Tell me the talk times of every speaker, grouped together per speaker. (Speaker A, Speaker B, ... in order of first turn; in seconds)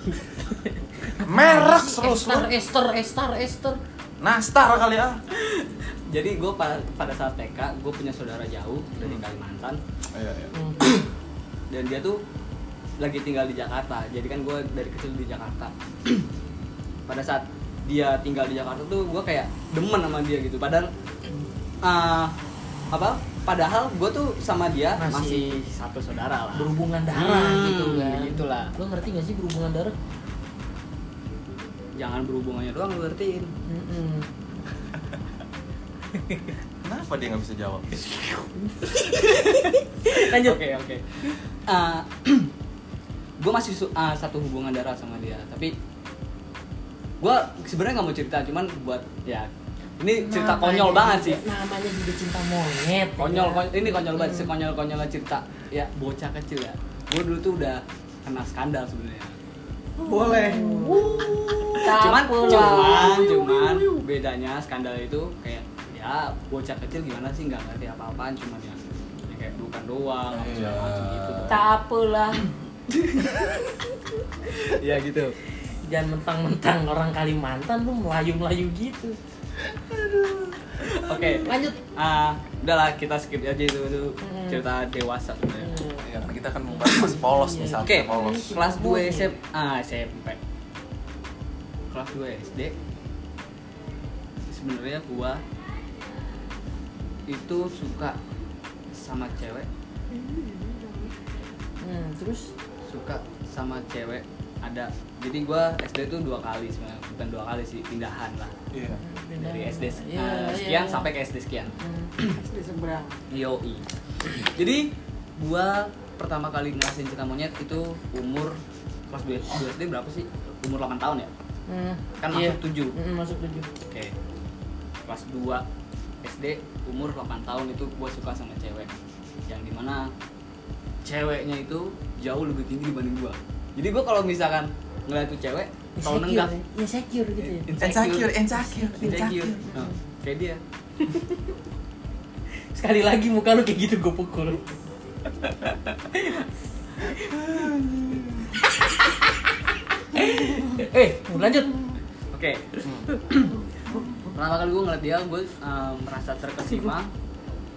Speaker A: 0.6-3.8, 10.5-10.8, 25.0-25.6, 26.5-29.9, 33.7-34.3, 36.2-36.5, 38.6-40.6, 50.2-54.5, 60.2-64.0, 71.5-72.5, 75.8-79.2, 81.4-81.8, 84.2-84.6, 85.6-86.1, 86.7-89.3, 101.8-102.5, 109.0-111.1, 111.8-112.1, 121.7-123.7, 136.0-137.7, 138.6-139.9, 141.0-141.3, 142.7-144.7, 148.8-149.4, 150.1-151.8, 153.1-153.3
Speaker B: 1.2-2.5, 4.2-5.2, 10.1-10.5, 36.8-37.9, 60.0-61.9, 70.3-71.6, 79.7-80.7, 86.0-88.5, 108.7-109.0, 137.8-139.6, 147.2-148.5, 152.8-153.1, 153.9-154.2
Speaker C: 5.3-9.8, 11.7-12.2, 13.0-16.3, 17.1-20.9, 21.8-22.3, 22.9-28.7, 32.0-33.5, 39.0-42.5, 43.4-45.7, 47.2-49.5, 50.0-51.4, 53.2-59.4, 61.8-71.7, 72.9-73.7, 74.5-75.3, 80.9-85.8, 87.8-90.4, 91.9-92.7, 94.5-95.4, 97.3-98.2, 98.9-99.7, 102.9-108.5, 109.4-112.4, 113.3-118.6, 119.1-121.3, 122.2-123.0, 123.9-124.1, 125.1-125.6, 126.2-128.9, 129.5-130.1, 131.0-136.5, 137.4-138.3, 139.0-140.6, 152.3-153.5, 154.3-157.1
Speaker D: 60.0-61.3, 61.8-63.4, 100.1-101.1, 112.3-113.2